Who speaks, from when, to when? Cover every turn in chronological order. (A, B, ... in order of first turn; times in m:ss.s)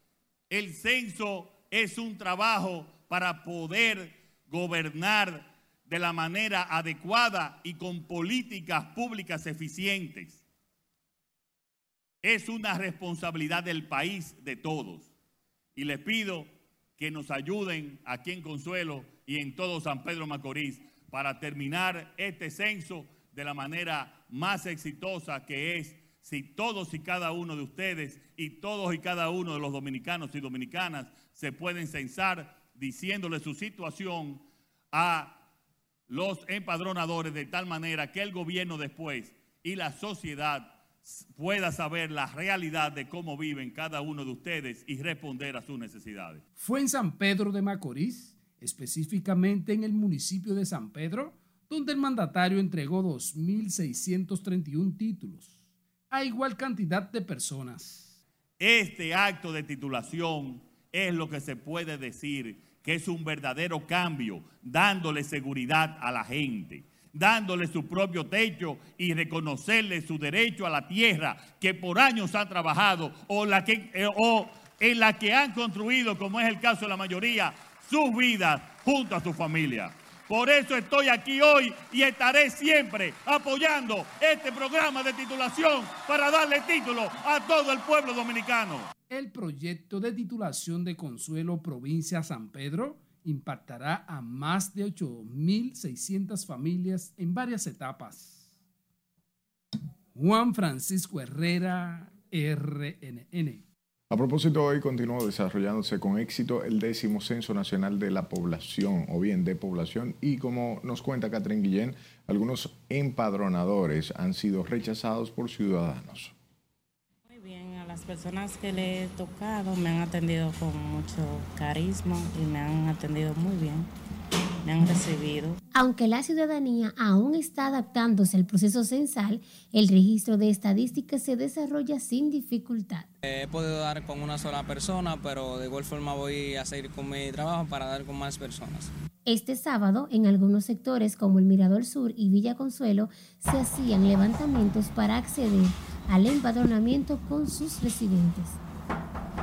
0:00.5-0:10.4 A
0:12.2-0:15.1 A
0:15.8-0:35.4 A
0:36.1-0:46.4 A
0:46.6-0:55.6 B
0:56.1-0:58.1 B
0:58.6-1:28.9 A
1:29.1-1:38.5 B
1:40.1-1:43.6 B
1:44.1-1:56.3 C
1:57.3-2:03.9 D
2:04.6-2:05.6 D
2:05.7-2:13.1 E
2:13.2-2:18.9 F
2:19.3-2:28.6 E